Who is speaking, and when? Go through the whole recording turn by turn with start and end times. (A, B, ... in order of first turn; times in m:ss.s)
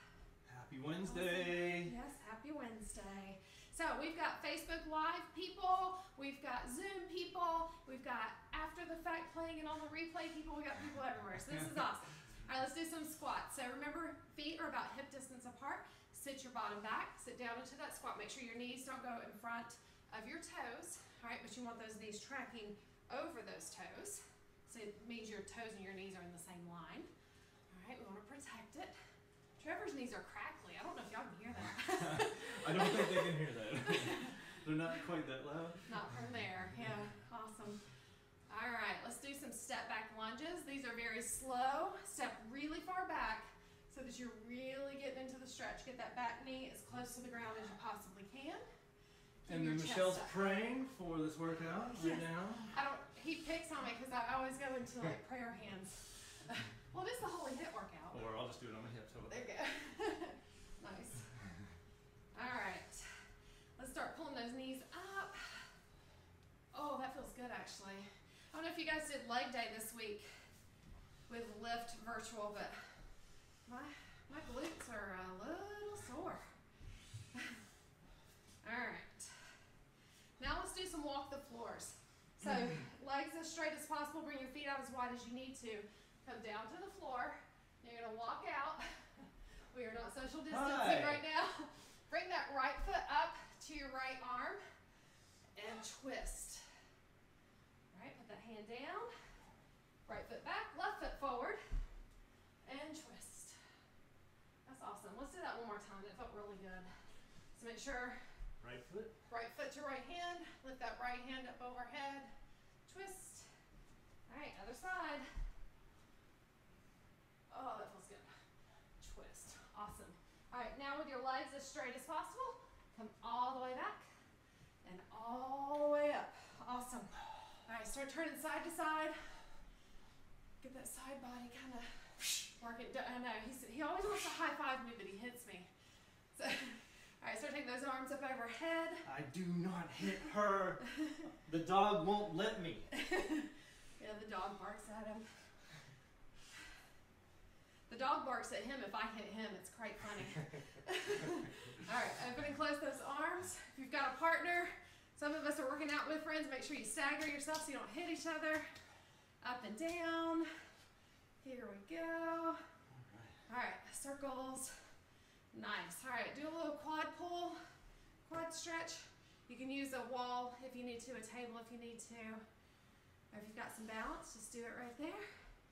0:00.5-0:01.9 A
0:01.0-0:27.1 B
0:27.7-0:29.0 B
0:29.6-0:34.4 B
0:31.8-0:35.9 A
0:35.9-0:37.8 B
0:38.5-0:48.6 B
0:49.4-0:50.3 B
0:49.5-0:52.8 A
0:52.0-0:58.2 B
0:58.1-0:59.5 A
0:59.3-1:01.3 B
1:02.3-1:03.1 B
1:03.8-1:05.7 B
1:06.7-1:10.3 B
1:11.3-1:13.0 B
1:13.7-1:16.4 B
1:17.3-1:17.6 B
1:18.6-1:19.3 B
1:20.4-1:34.6 B
1:30.5-1:31.2 A
1:35.6-1:36.6 B
1:37.9-1:39.1 B
1:40.1-1:41.6 B
1:42.6-1:43.6 B
1:44.6-1:46.9 B
1:47.5-1:48.2 B
1:48.6-1:49.1 A
1:49.3-1:52.3 B
1:52.8-1:53.5 B
1:54.3-1:55.3 B
1:57.5-1:58.3 B
1:59.0-2:04.1 B
2:04.8-2:07.1 B
2:07.7-2:09.2 B
2:10.6-2:15.7 B
2:16.3-2:19.0 B
2:19.0-2:22.9 A
2:22.9-2:25.3 B
2:27.9-2:38.7 B
2:39.4-2:40.5 B
2:41.4-2:42.6 B
2:43.0-2:43.3 A
2:43.5-2:44.8 B
2:45.5-2:47.6 B
2:48.2-2:52.4 B
2:53.3-2:55.2 B